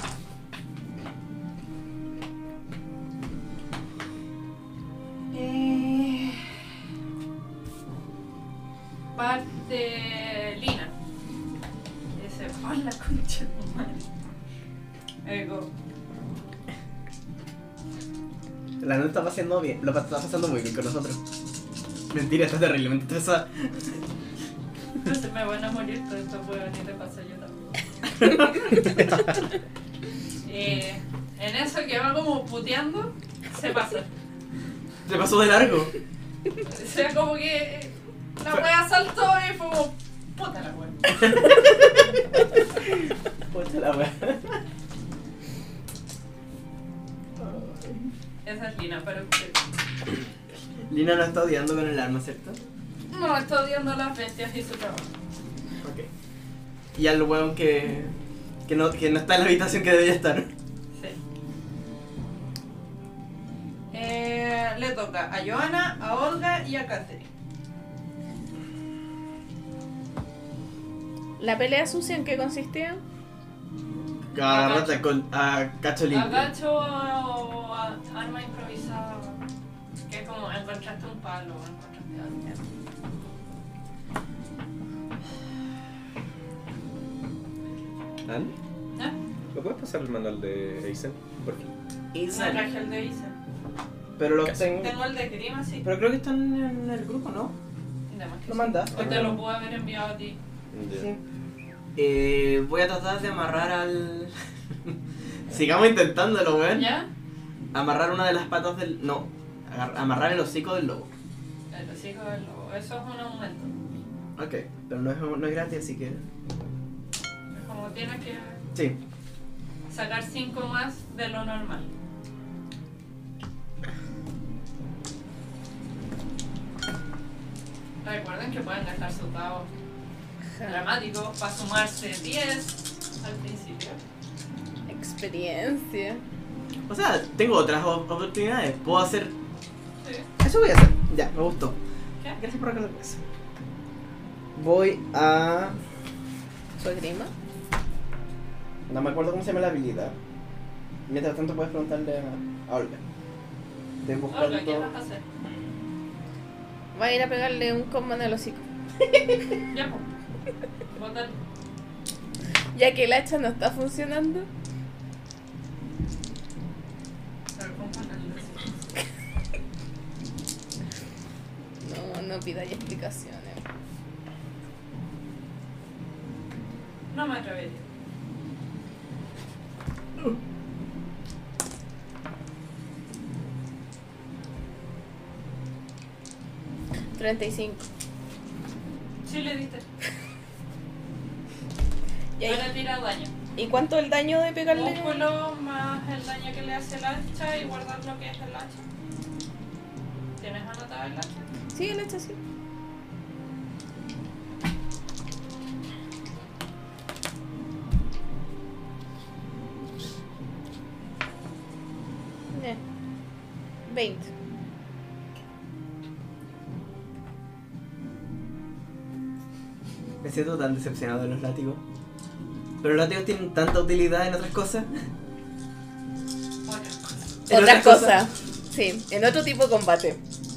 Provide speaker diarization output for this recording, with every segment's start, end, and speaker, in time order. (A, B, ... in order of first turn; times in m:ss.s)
0:05.3-0:06.4 A
0:09.1-0:10.9 A
0:12.2-0:14.0 A
0:15.2-0:15.7 A
0:18.8-0:21.2 B
0:22.1-0:24.0 B
0:25.0-0:27.6 A
0:28.2-0:28.8 B
0:30.4-0:34.1 A
0:35.0-0:35.9 B
0:36.6-0:41.0 A
0:41.1-0:42.6 B
0:43.5-0:44.6 B
0:47.4-0:48.1 B
0:48.4-0:49.6 A
0:50.9-0:52.6 B
0:53.1-0:55.1 A
0:55.8-0:56.1 B
0:56.9-0:58.1 B
0:58.6-1:00.5 B
1:00.9-1:01.2 A
1:03.9-1:07.3 A
1:11.4-1:13.0 C
1:14.3-1:16.5 B
1:14.4-1:15.0 A
1:16.1-1:19.4 A
1:20.1-1:22.5 A
1:28.2-1:28.5 D
1:28.9-1:29.2 A
1:29.5-1:31.7 D
1:32.1-1:32.7 B
1:32.3-1:33.4 A
1:34.2-1:34.9 B
1:34.8-1:35.8 A
1:35.8-1:37.6 B
1:38.1-1:40.4 A
1:38.5-1:39.2 B
1:40.7-1:41.1 D
1:40.9-1:41.2 B
1:42.0-1:44.3 B
1:45.5-1:46.9 B
1:46.7-1:47.1 A
1:47.7-1:51.1 B
1:51.7-1:53.7 A
1:54.4-1:56.2 B
1:57.5-1:58.6 A
1:59.9-2:01.9 A
2:08.0-2:09.7 A
2:10.6-2:10.9 C
2:10.6-2:14.0 A
2:14.9-2:16.2 C
2:16.9-2:19.3 B
2:20.0-2:20.3 A
2:20.4-2:21.8 B
2:22.3-2:23.2 B
2:24.5-2:25.8 B
2:26.8-2:27.3 C
2:28.9-2:30.2 B
2:31.1-2:33.0 B
2:34.0-2:34.9 B
2:34.3-2:35.2 A
2:36.9-2:38.6 C
2:39.7-2:40.0 A
2:40.9-2:41.4 A
2:42.7-2:44.5 C
2:47.5-2:48.9 A
2:51.8-2:53.6 C
2:57.1-2:57.8 A
3:07.1-3:07.8 C
3:09.2-3:09.8 A
3:12.4-3:12.7 C
3:12.4-3:13.3 A
3:13.5-3:15.3 C
3:14.7-3:18.8 A
3:20.4-3:21.5 A
3:21.7-3:22.4 C
3:32.5-3:32.8 C
3:33.9-3:34.3 C
3:40.2-3:41.8 B
3:42.8-3:44.9 B
3:46.6-3:47.1 A
3:47.5-3:48.3 B
3:47.5-3:50.2 C